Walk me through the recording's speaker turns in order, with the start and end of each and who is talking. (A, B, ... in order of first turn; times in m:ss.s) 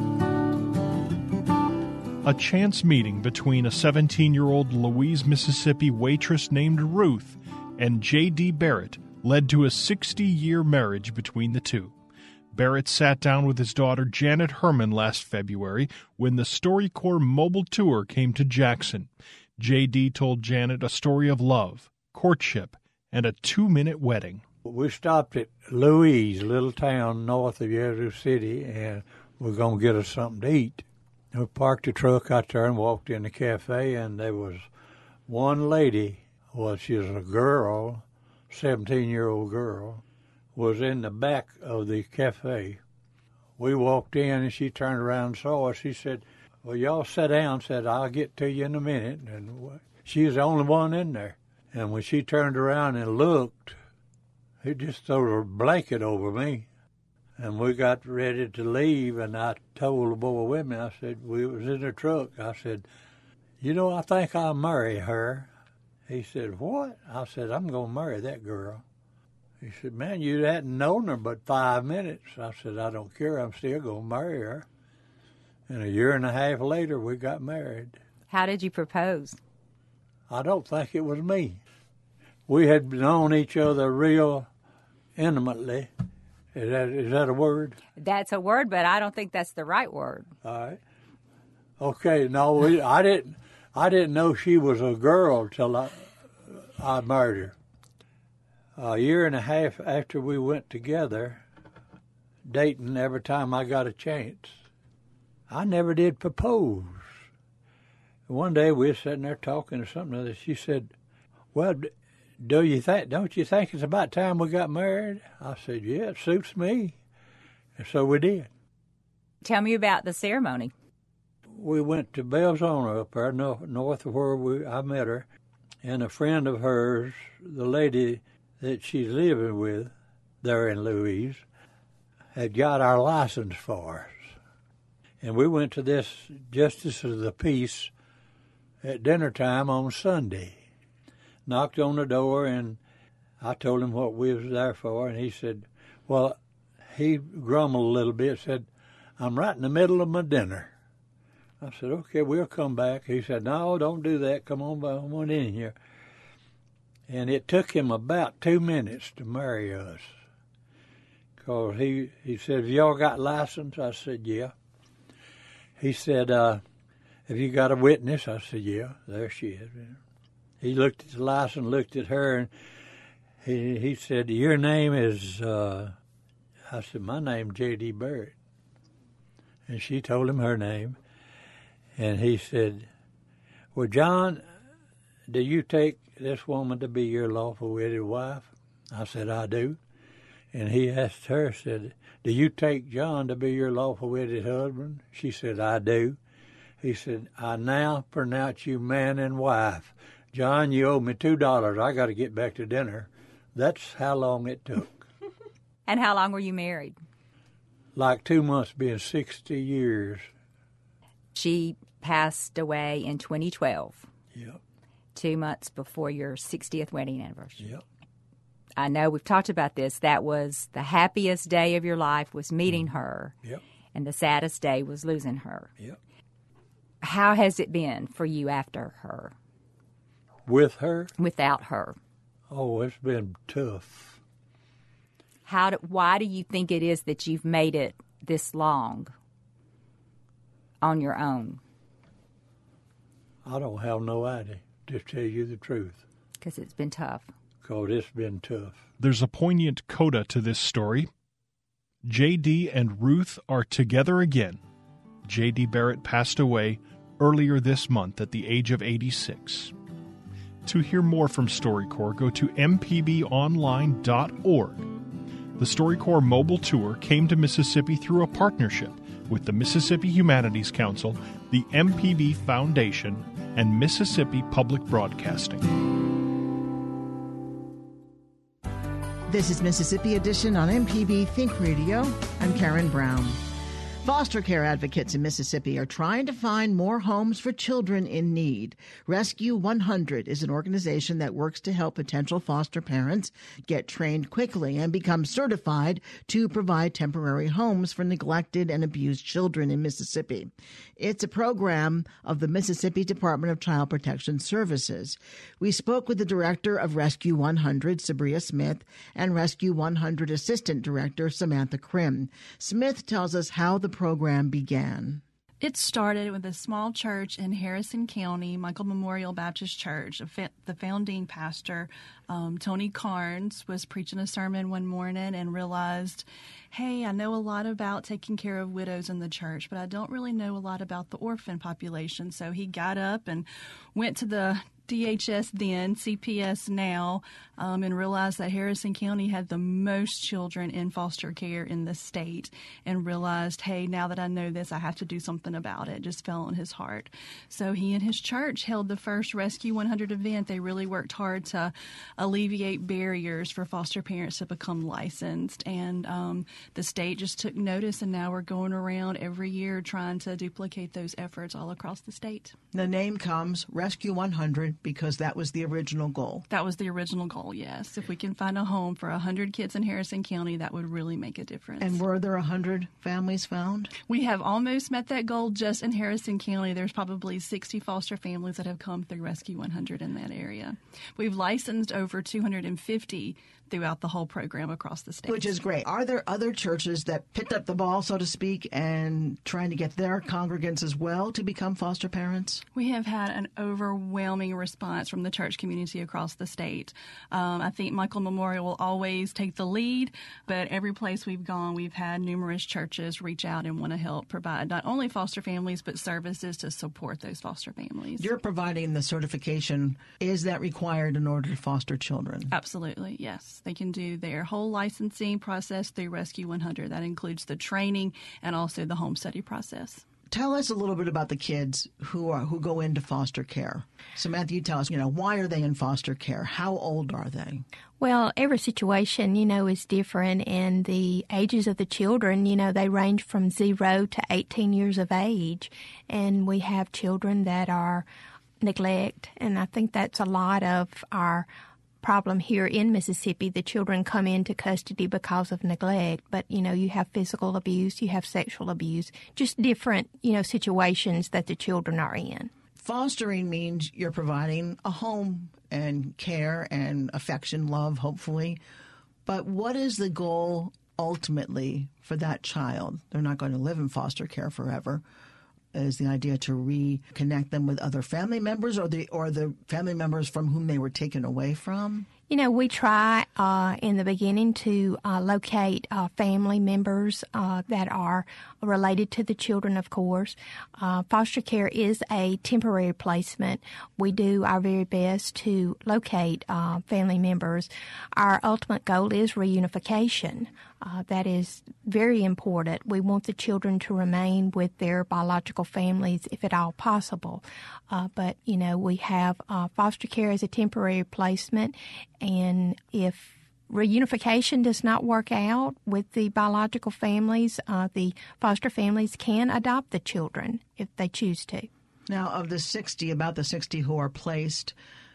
0:02.2-0:11.9 A
0:12.5-0:24.4 A
0:24.6-0:34.7 B
0:35.3-0:40.0 B
0:40.6-0:42.8 B
0:43.6-0:53.8 B
0:54.6-0:56.7 B
0:57.4-1:02.8 B
1:03.6-1:05.5 B
1:06.1-1:08.8 B
1:09.6-1:14.7 B
1:15.7-1:18.0 B
1:18.3-1:19.4 C
1:20.3-1:21.6 B
1:22.5-1:24.5 B
1:25.2-1:25.9 B
1:26.5-1:27.8 B
1:27.9-1:30.3 C
1:30.4-1:30.8 B
1:31.8-1:37.6 B
1:38.8-1:41.4 B
1:42.4-1:44.6 B
1:45.5-1:47.1 B
1:48.3-1:50.9 B
1:51.5-1:57.0 B
1:57.8-1:58.5 B
1:59.4-2:00.7 C
2:01.5-2:05.3 B
2:05.8-2:11.4 B
2:12.3-2:14.3 B
2:15.2-2:17.9 B
2:18.8-2:20.6 B
2:21.5-2:22.8 B
2:23.4-2:26.4 B
2:26.9-2:28.7 B
2:29.2-2:30.7 B
2:31.6-2:35.8 B
2:37.1-2:40.1 B
2:41.4-2:44.5 B
2:45.8-2:46.6 B
2:47.3-2:50.0 B
2:50.6-2:52.5 B
2:53.4-2:56.0 B
2:56.7-2:58.3 B
2:59.7-3:01.0 B
3:02.0-3:02.9 B
3:03.7-3:04.4 B
3:05.3-3:09.8 B
3:10.5-3:16.2 B
3:16.8-3:25.0 B
3:25.9-3:27.0 C
3:28.0-3:30.3 B
3:31.3-3:34.1 C
3:35.1-3:37.7 C
3:38.8-3:43.3 C
3:43.9-3:45.7 C
3:47.0-3:49.3 C
3:50.5-3:51.1 B
3:51.2-3:52.0 C
3:52.5-3:54.2 B
3:55.4-3:59.1 C
4:00.8-4:01.6 C
4:03.4-4:06.0 B
4:06.4-4:07.3 C
4:07.6-4:08.8 B
4:09.0-4:11.1 A
4:12.0-4:14.6 A
4:15.3-4:19.7 A
4:20.6-4:24.9 A
4:25.6-4:35.6 A
4:39.3-4:43.4 D
4:44.0-5:15.2 D
5:15.6-6:02.6 E
6:02.7-6:06.5 D
6:06.5-6:12.0 E
6:11.8-6:13.9 D
6:14.1-6:25.6 E
6:25.3-6:32.6 D
6:32.7-6:48.3 E
6:48.2-6:52.5 D
6:52.5-7:00.0 E
7:00.3-7:07.6 D
7:08.0-7:18.1 F
7:18.6-7:21.5 F
7:22.0-7:32.5 F
7:32.8-7:38.6 D
7:39.3-7:45.0 D
7:45.7-7:52.1 D
7:52.3-8:31.7 F
8:32.1-8:34.7 D